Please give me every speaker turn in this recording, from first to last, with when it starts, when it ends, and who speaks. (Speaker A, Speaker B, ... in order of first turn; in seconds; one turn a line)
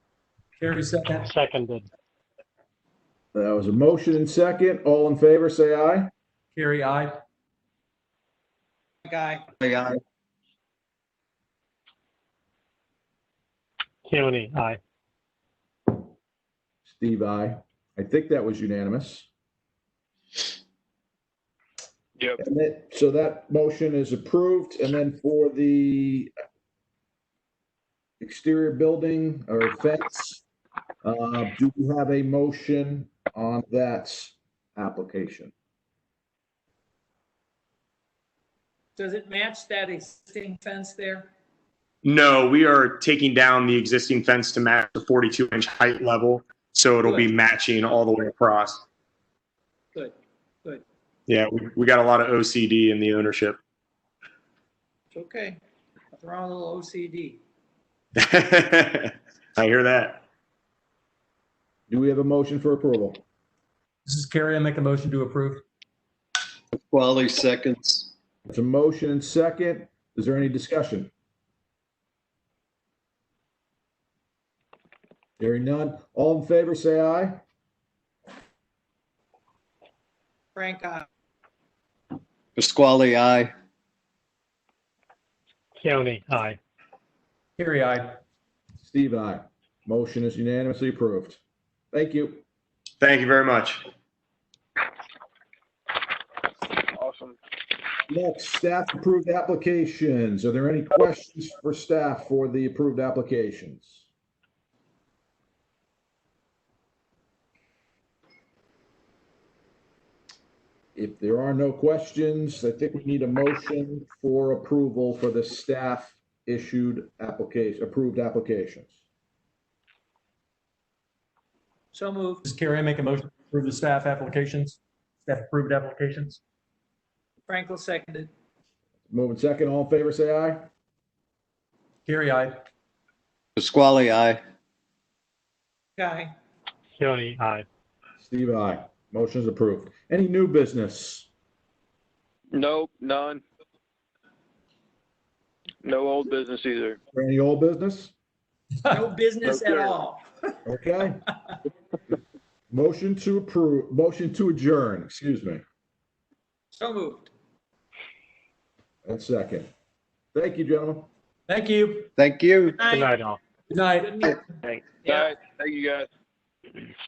Speaker A: 0.6-1.3
Speaker B: 1.2-1.9
Speaker C: 3.3-6.1
Speaker A: 6.5-7.2
Speaker D: 9.0-9.4
Speaker E: 9.6-10.0
Speaker B: 14.1-14.8
Speaker C: 16.9-19.3
Speaker C: 22.4-26.3
Speaker C: 28.2-30.4
Speaker C: 31.0-35.5
Speaker D: 39.0-41.3
Speaker F: 42.0-48.8
Speaker D: 47.0-47.3
Speaker D: 49.9-50.8
Speaker F: 51.3-53.6
Speaker D: 55.1-55.6
Speaker D: 56.1-57.4
Speaker F: 58.2-60.2
Speaker C: 61.9-63.2
Speaker A: 64.0-65.6
Speaker E: 66.7-68.1
Speaker C: 68.5-71.1
Speaker C: 75.4-77.4
Speaker D: 80.5-81.1
Speaker E: 82.5-83.5
Speaker B: 85.8-86.6
Speaker A: 87.6-88.2
Speaker C: 88.8-91.4
Speaker C: 91.9-92.4
Speaker F: 93.0-93.8
Speaker G: 96.9-97.4
Speaker C: 98.1-104.1
Speaker C: 111.0-118.9
Speaker D: 121.9-122.4
Speaker A: 122.4-126.4
Speaker D: 127.5-128.3
Speaker C: 129.1-130.7
Speaker A: 132.1-132.6
Speaker E: 133.6-134.4
Speaker D: 136.0-136.3
Speaker B: 137.0-137.7
Speaker C: 138.2-141.3
Speaker G: 142.5-143.4
Speaker G: 145.8-147.0
Speaker C: 147.1-148.1
Speaker D: 148.9-150.2
Speaker G: 149.4-149.9
Speaker C: 150.6-151.2
Speaker C: 152.7-155.6
Speaker D: 156.7-157.3
Speaker C: 159.0-159.7
Speaker C: 160.3-161.1
Speaker A: 161.5-162.1
Speaker E: 162.2-162.8
Speaker D: 162.6-163.1
Speaker B: 162.9-163.4
Speaker A: 163.7-164.2
Speaker D: 163.9-164.5
Speaker G: 164.7-166.1
Speaker D: 165.0-165.3